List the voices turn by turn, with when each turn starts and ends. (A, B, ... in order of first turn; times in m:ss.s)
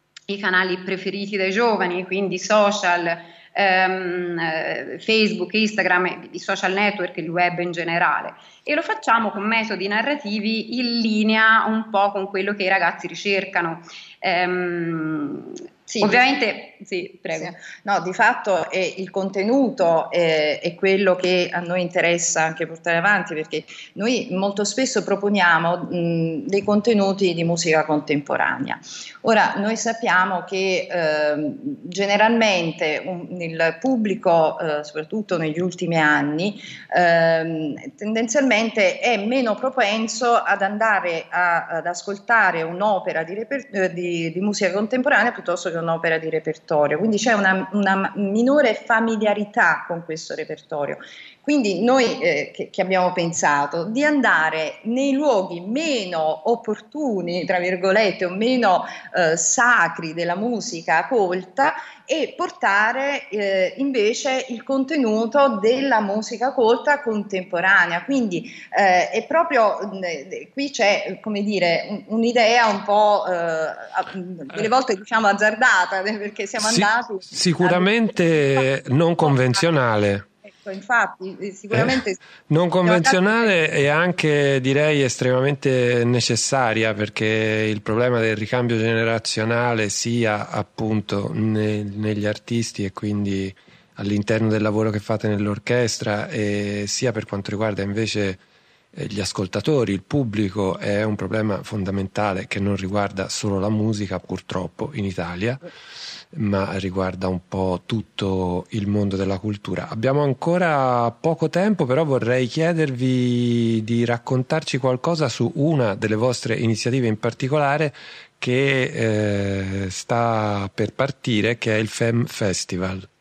0:00.3-0:17.5 A
0:15.9-0:16.3 B
0:17.3-1:17.9 B
1:16.6-1:20.2 C
1:20.4-1:22.2 B
1:21.7-1:22.0 C
1:22.5-1:38.4 C
1:22.8-1:23.6 B
1:38.9-1:45.6 C
1:46.3-2:03.1 C